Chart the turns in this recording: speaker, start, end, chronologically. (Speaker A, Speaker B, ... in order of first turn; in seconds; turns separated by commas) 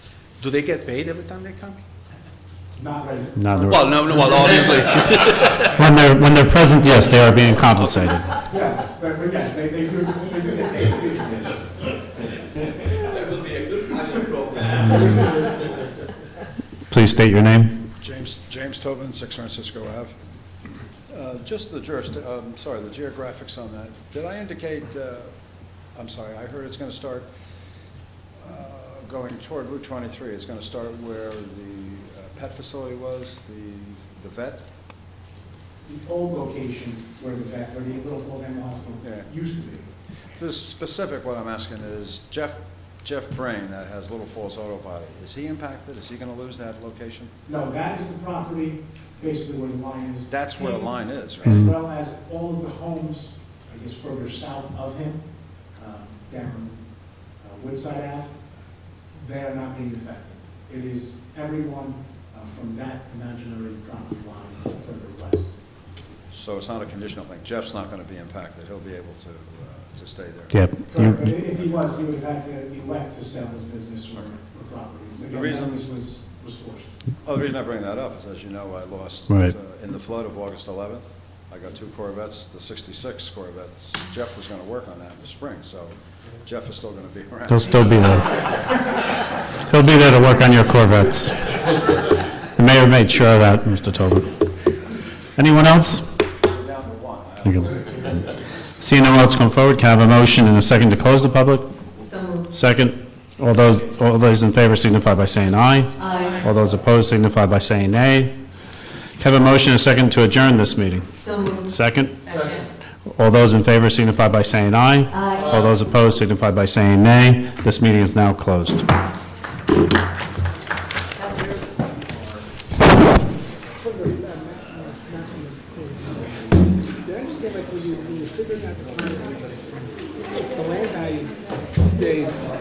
Speaker A: 0.4-1.8, Speaker B: 2.8-5.1, Speaker C: 3.4-3.9, Speaker A: 3.7-5.8, Speaker C: 5.7-8.3, Speaker A: 7.5-8.2, Speaker B: 8.5-11.8, Speaker A: 13.0-15.8, Speaker C: 16.9-17.8, Speaker D: 18.0-20.1, Speaker D: 21.1-25.3, Speaker D: 25.9-27.3, Speaker D: 28.4-34.7, Speaker B: 35.8-39.9, Speaker D: 39.0-39.3, Speaker D: 40.3-47.3, Speaker B: 47.5-55.2, Speaker D: 50.3-51.7, Speaker B: 55.7-56.8, Speaker B: 57.4-58.3, Speaker B: 59.1-65.6, Speaker D: 66.3-70.7, Speaker C: 70.5-71.3, Speaker B: 70.9-76.9, Speaker D: 75.3-75.9, Speaker D: 77.2-88.1, Speaker C: 87.5-88.4, Speaker C: 89.7-91.5, Speaker C: 92.6-94.3, Speaker C: 95.4-96.1, Speaker D: 96.4-98.2, Speaker C: 97.5-97.8, Speaker C: 98.8-101.7, Speaker E: 102.0-102.5, Speaker C: 102.5-108.3, Speaker E: 106.0-106.4, Speaker A: 106.2-106.5, Speaker C: 109.2-111.1, Speaker E: 111.2-111.7, Speaker C: 111.7-112.2, Speaker E: 112.3-112.7, Speaker A: 112.4-112.7, Speaker C: 113.1-118.9, Speaker E: 115.1-115.5, Speaker F: 124.0-125.7, Speaker F: 127.1-129.7, Speaker F: 130.4-131.3, Speaker F: 131.9-132.5